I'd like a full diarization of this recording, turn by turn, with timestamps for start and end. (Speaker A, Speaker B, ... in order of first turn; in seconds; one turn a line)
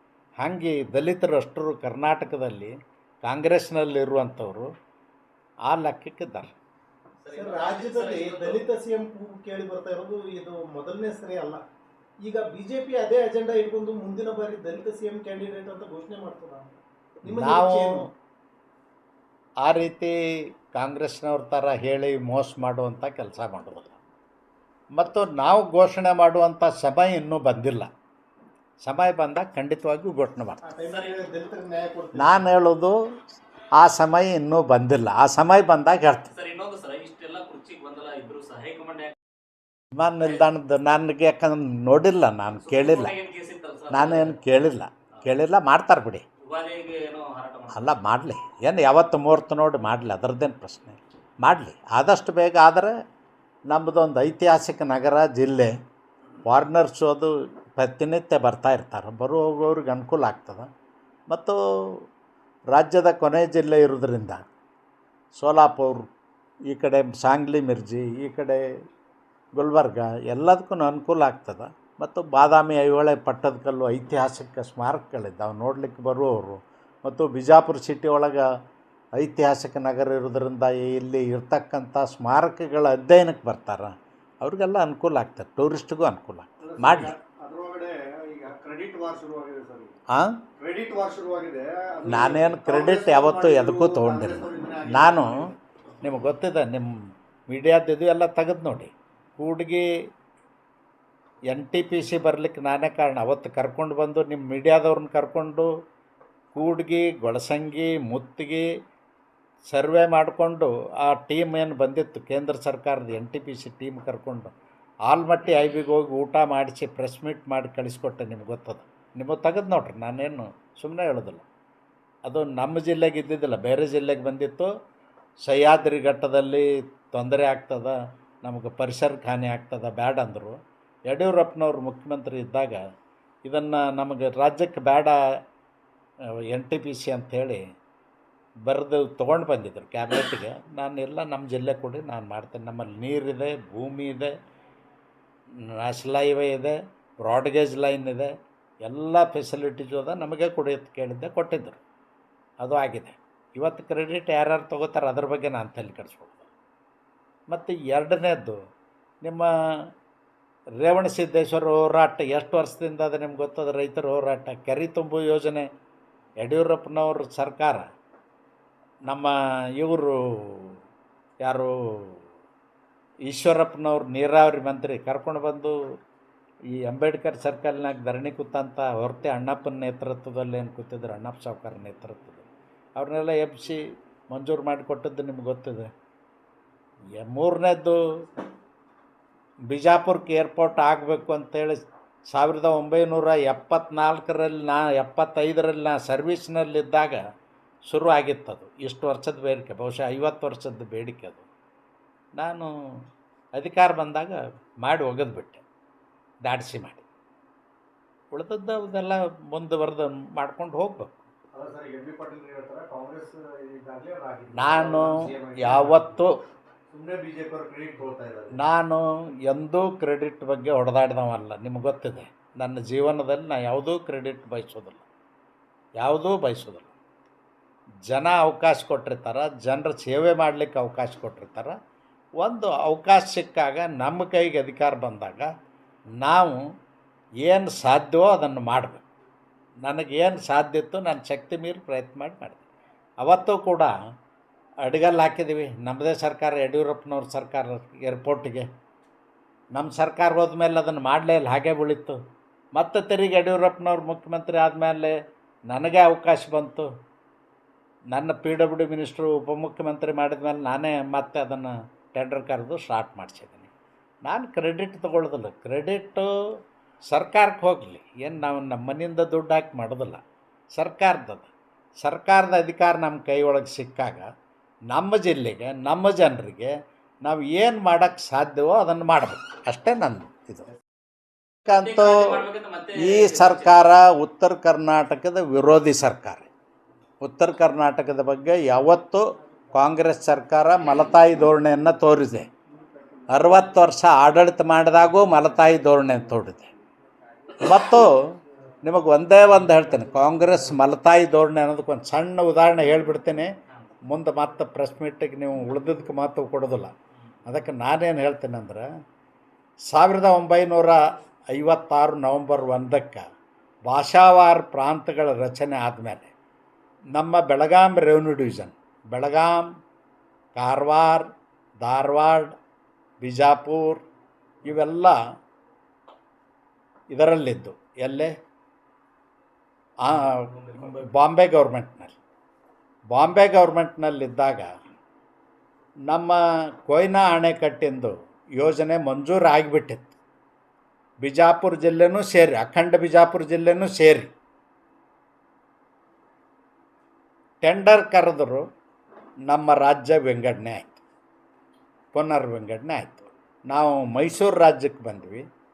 Speaker A: 0.4-4.7
Speaker A: 5.7-6.5
Speaker B: 7.2-8.6
Speaker C: 7.3-11.6
Speaker C: 12.2-16.7
Speaker C: 17.2-18.1
Speaker A: 17.3-18.1
Speaker A: 19.6-20.1
Speaker A: 20.6-24.0
Speaker A: 24.9-27.9
Speaker A: 28.8-30.6
Speaker C: 30.6-32.4
Speaker B: 30.9-31.2
Speaker A: 32.2-33.0
Speaker A: 33.8-36.3
Speaker B: 36.3-39.1
Speaker A: 40.0-43.2
Speaker B: 42.6-44.4
Speaker A: 43.9-46.2
Speaker B: 46.5-47.9
Speaker A: 47.7-52.9
Speaker A: 53.7-55.7
Speaker A: 56.4-60.7
Speaker A: 61.3-62.0
Speaker A: 62.7-64.4
Speaker A: 65.3-66.1
Speaker A: 66.7-68.7
Speaker A: 69.5-78.4
Speaker A: 79.2-87.2
Speaker C: 86.6-89.9
Speaker A: 90.1-90.4
Speaker C: 90.6-95.5
Speaker A: 92.1-95.4
Speaker A: 96.0-96.9
Speaker A: 97.5-99.9
Speaker A: 101.5-105.7
Speaker A: 106.5-108.7
Speaker A: 109.7-114.5
Speaker A: 115.1-121.5
Speaker A: 122.3-124.7
Speaker A: 125.4-130.6
Speaker A: 131.1-132.8
Speaker A: 133.4-135.2
Speaker A: 136.5-137.6
Speaker A: 138.7-144.3
Speaker A: 145.7-148.3
Speaker A: 148.8-151.8
Speaker A: 152.6-156.5
Speaker A: 157.5-158.6
Speaker A: 159.2-159.5
Speaker A: 160.8-165.7
Speaker A: 166.4-167.8
Speaker A: 169.1-170.8
Speaker A: 171.4-172.2
Speaker A: 173.3-175.8
Speaker A: 176.8-182.4
Speaker A: 183.0-185.9
Speaker A: 187.2-188.0
Speaker A: 189.7-197.2
Speaker A: 197.9-201.5
Speaker A: 202.4-202.7
Speaker A: 203.6-205.6
Speaker A: 206.4-207.1
Speaker A: 208.3-211.2
Speaker C: 211.5-216.2
Speaker A: 214.6-216.3
Speaker C: 216.9-218.6
Speaker A: 218.6-225.1
Speaker A: 226.0-226.9
Speaker A: 228.1-231.7
Speaker A: 232.4-235.5
Speaker A: 236.2-236.6
Speaker A: 237.4-239.0
Speaker A: 239.8-242.6
Speaker A: 243.2-243.9
Speaker A: 244.8-248.7
Speaker A: 249.7-252.2
Speaker A: 252.8-255.2
Speaker A: 255.7-256.9
Speaker A: 258.1-263.7
Speaker A: 264.3-266.3
Speaker A: 267.1-270.2
Speaker A: 270.8-271.5
Speaker A: 272.0-274.3
Speaker A: 274.9-276.7
Speaker A: 277.2-280.7
Speaker A: 281.7-282.4
Speaker B: 281.7-283.8
Speaker A: 283.0-286.5
Speaker A: 287.2-289.2
Speaker A: 289.7-292.5
Speaker C: 292.8-293.5
Speaker A: 293.3-296.7
Speaker A: 297.6-298.1
Speaker A: 298.8-303.5
Speaker A: 304.1-306.9
Speaker A: 307.5-308.9
Speaker A: 309.9-311.0
Speaker A: 311.5-313.2
Speaker A: 313.9-316.3
Speaker A: 317.1-319.6
Speaker A: 320.6-321.2
Speaker A: 321.8-322.5
Speaker A: 323.2-324.0
Speaker A: 324.6-325.2
Speaker A: 327.1-328.3
Speaker A: 330.0-332.2
Speaker A: 333.1-334.7
Speaker A: 336.1-340.1
Speaker A: 341.2-344.3
Speaker A: 347.6-348.6
Speaker A: 349.5-351.0
Speaker A: 352.1-355.5